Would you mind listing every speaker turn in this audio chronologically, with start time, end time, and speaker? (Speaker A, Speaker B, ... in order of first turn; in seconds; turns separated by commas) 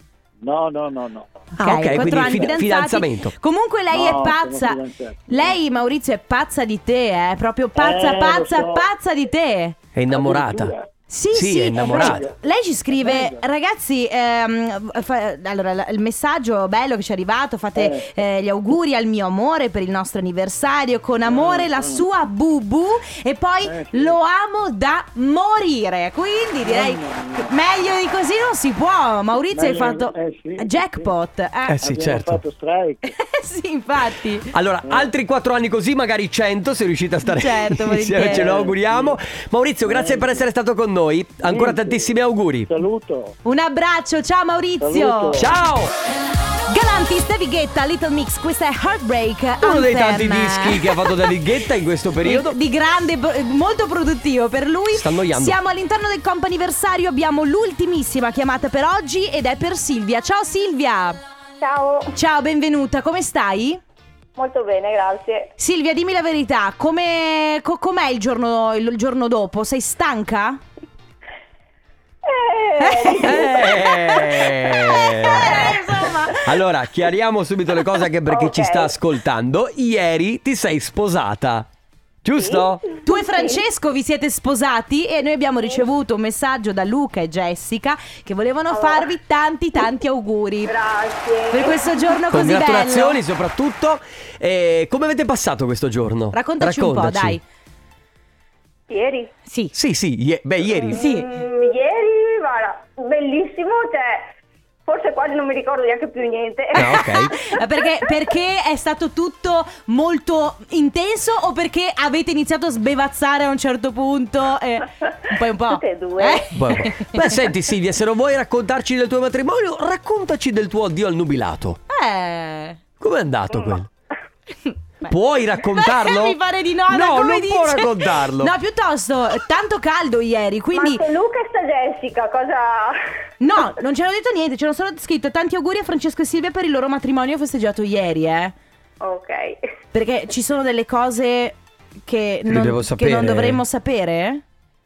Speaker A: 0.4-1.5, Speaker B: 1.6-9.8, Speaker C: 1.6-3.3, Speaker A: 2.0-2.5, Speaker A: 3.9-5.6, Speaker A: 7.8-8.8, Speaker C: 9.9-10.7, Speaker A: 10.1-10.9, Speaker B: 11.1-31.8, Speaker C: 11.3-12.3, Speaker A: 11.8-13.4, Speaker A: 17.8-18.1, Speaker A: 21.2-22.1, Speaker A: 23.6-24.2, Speaker A: 26.6-27.5, Speaker A: 29.5-31.1, Speaker C: 31.7-32.4, Speaker A: 31.8-33.1, Speaker B: 33.1-34.5, Speaker C: 34.5-42.7, Speaker A: 34.8-35.1, Speaker B: 37.2-38.6, Speaker A: 38.2-39.2, Speaker A: 39.8-40.5, Speaker A: 41.4-42.1, Speaker A: 42.7-43.3, Speaker B: 43.4-45.4, Speaker A: 44.8-45.5, Speaker C: 45.4-45.9, Speaker B: 46.7-51.3, Speaker C: 49.6-52.5, Speaker B: 52.2-61.2, Speaker C: 54.9-55.6, Speaker D: 61.6-62.1, Speaker B: 62.1-63.8, Speaker D: 64.3-65.5, Speaker B: 65.6-70.6, Speaker D: 72.2-74.2, Speaker B: 72.8-76.4, Speaker C: 73.2-75.8, Speaker D: 75.2-75.9, Speaker C: 76.4-81.7, Speaker D: 78.3-79.0, Speaker C: 82.2-82.8, Speaker D: 82.4-83.6, Speaker B: 83.0-90.7, Speaker D: 88.7-89.1, Speaker D: 90.7-91.9, Speaker B: 91.5-93.2, Speaker C: 92.3-97.4, Speaker B: 96.3-97.4, Speaker D: 98.9-99.3, Speaker B: 99.5-99.7, Speaker C: 99.7-101.0, Speaker B: 100.9-101.3, Speaker D: 100.9-104.3, Speaker D: 104.9-107.3, Speaker C: 106.7-107.3, Speaker B: 106.8-117.4, Speaker D: 115.7-116.5, Speaker C: 116.5-121.8, Speaker B: 121.9-122.8, Speaker C: 123.0-123.9, Speaker B: 124.6-125.1, Speaker C: 125.1-128.5, Speaker B: 125.7-131.1, Speaker D: 130.7-132.9, Speaker B: 133.4-138.5, Speaker D: 139.0-139.6, Speaker B: 139.9-144.4, Speaker C: 142.5-143.6